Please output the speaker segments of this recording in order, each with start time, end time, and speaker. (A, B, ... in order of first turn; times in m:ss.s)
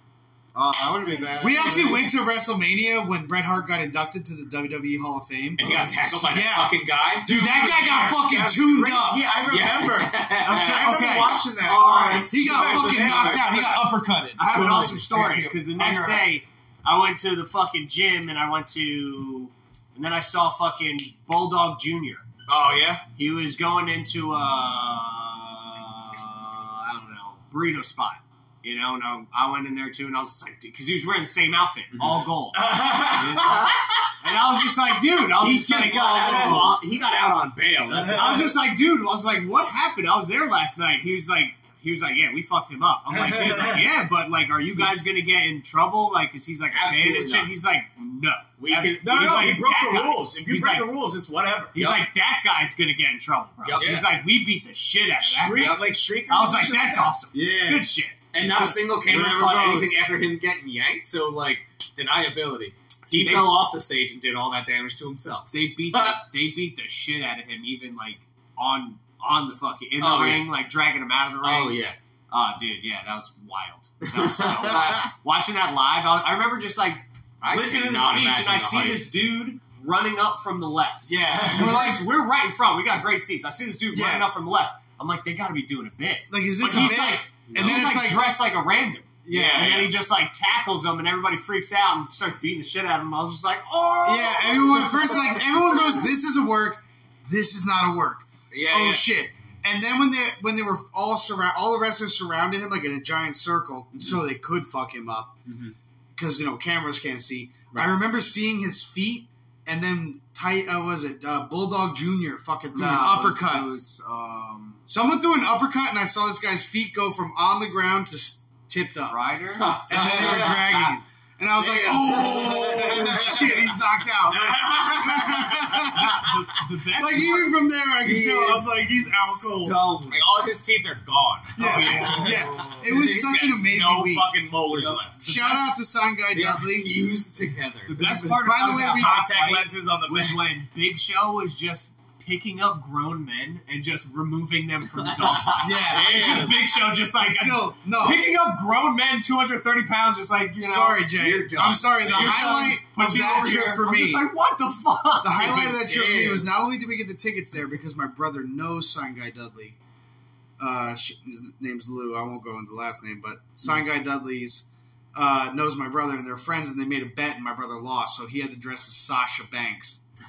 0:00.5-0:02.1 A
0:01.4-0:09.3 B
0:05.6-0:07.3 C
0:07.3-0:13.8 D
0:09.4-0:11.1 C
0:10.4-0:12.3 E
0:11.6-0:13.5 C
0:12.3-0:15.9 B
0:14.4-0:22.2 E
0:15.9-0:16.2 C
0:22.5-0:23.0 D
0:23.2-0:36.8 E
0:32.5-0:33.7 D
0:35.4-0:38.4 C
0:36.2-0:36.7 D
0:37.9-0:38.6 D
0:38.1-0:50.9 E
0:43.1-0:43.9 D
0:46.7-0:47.5 C
0:48.6-0:49.5 C
0:49.0-0:51.7 D
0:51.7-0:58.2 E
0:51.7-0:52.1 C
0:53.6-0:54.0 C
0:53.8-0:54.1 D
0:55.2-0:57.1 D
0:57.3-0:57.9 A
0:58.3-1:06.2 C
0:58.9-1:00.0 A
1:03.1-1:03.5 E
1:05.5-1:36.0 E
1:10.0-1:10.5 C
1:11.4-1:12.0 C
1:14.0-1:15.1 C
1:17.4-1:19.1 C
1:21.1-1:22.1 B
1:21.2-1:21.9 D
1:23.9-1:24.3 B
1:26.3-1:28.4 B
1:26.6-1:27.9 C
1:29.2-1:29.8 B
1:29.3-1:29.9 D
1:34.0-1:45.4 B
1:38.5-1:39.1 D
1:45.4-1:45.7 C
1:46.1-1:53.7 B
1:52.7-1:54.8 E
1:54.9-1:59.2 B
1:59.1-2:00.6 E
1:59.5-2:00.9 C
1:59.8-2:06.2 B
2:01.7-2:03.4 A
2:04.2-2:06.3 D
2:06.0-2:07.6 E
2:07.0-2:09.8 B
2:08.1-2:15.2 D
2:09.6-2:10.2 C
2:11.6-2:14.3 B
2:11.6-2:12.5 C
2:11.6-2:12.4 E
2:14.7-2:15.6 E
2:15.2-2:17.0 B
2:16.3-2:18.3 C
2:17.9-2:35.8 E
2:18.0-2:19.2 B
2:18.5-2:20.5 D
2:25.0-2:25.7 C
2:25.6-2:28.2 B
2:25.8-2:26.7 A
2:30.6-2:34.3 B
2:31.7-2:32.5 C
2:35.2-2:39.8 B
2:35.8-2:36.4 A
2:40.6-2:50.0 B